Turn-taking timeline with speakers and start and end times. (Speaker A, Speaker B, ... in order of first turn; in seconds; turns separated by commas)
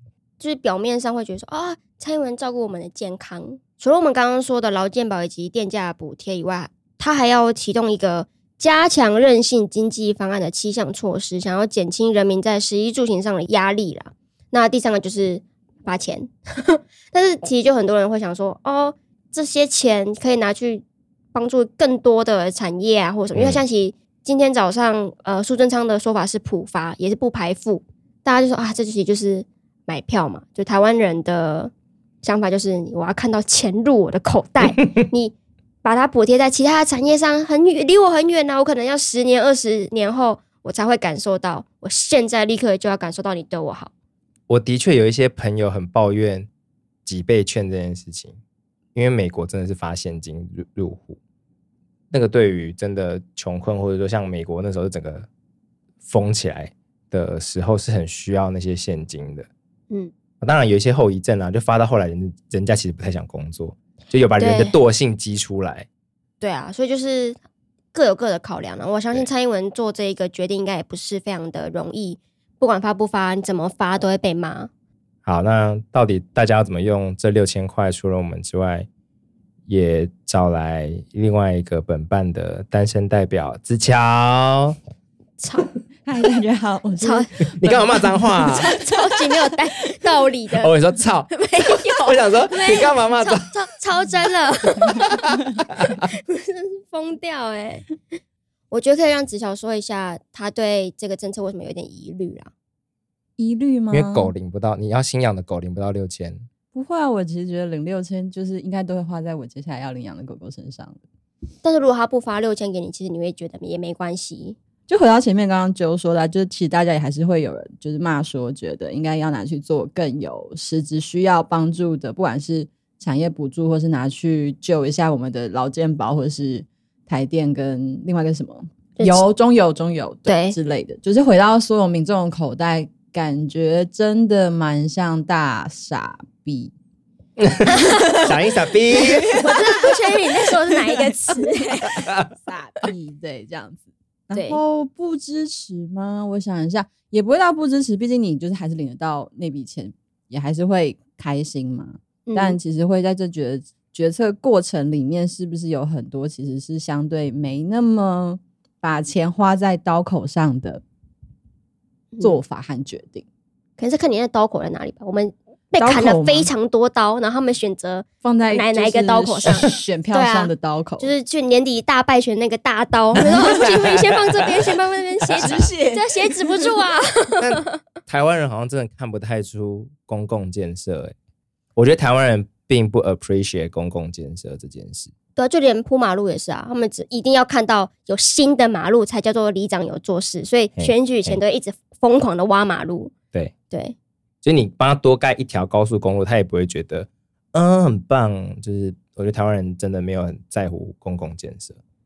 Speaker A: 0.4-31.7, Speaker B: 23.3-23.6, Speaker A: 32.2-43.9, Speaker B: 44.5-46.5, Speaker B: 47.0-48.4, Speaker B: 48.9-51.2, Speaker B: 52.1-55.3, Speaker B: 56.1-59.5, Speaker B: 60.4-65.9, Speaker A: 64.4-64.8, Speaker A: 66.4-67.4, Speaker A: 67.9-74.7, Speaker B: 75.2-78.9, Speaker B: 79.7-84.8, Speaker A: 85.4-85.7, Speaker C: 86.0-89.5, Speaker A: 87.0-87.3, Speaker B: 87.6-88.7, Speaker A: 88.5-90.7, Speaker B: 90.6-93.5, Speaker A: 91.3-95.1, Speaker A: 95.9-97.8, Speaker A: 98.7-102.5, Speaker C: 103.4-104.3, Speaker B: 103.9-106.4, Speaker C: 106.7-111.0, Speaker A: 111.6-114.5, Speaker C: 114.9-136.7, Speaker A: 129.0-129.3, Speaker A: 130.2-130.6, Speaker B: 137.4-139.4, Speaker A: 137.7-138.2, Speaker C: 138.0-138.3, Speaker C: 138.9-139.5, Speaker A: 139.3-142.0, Speaker C: 140.7-160.8, Speaker A: 144.3-144.6, Speaker A: 152.3-152.6, Speaker A: 162.1-162.4, Speaker C: 162.2-163.2, Speaker A: 163.8-177.7, Speaker C: 165.8-166.5, Speaker C: 168.2-171.1, Speaker B: 173.4-173.8, Speaker C: 175.4-176.5, Speaker B: 177.4-181.1, Speaker B: 181.8-185.1, Speaker A: 185.3-193.1, Speaker B: 190.8-191.4, Speaker A: 193.7-193.9, Speaker B: 194.4-201.8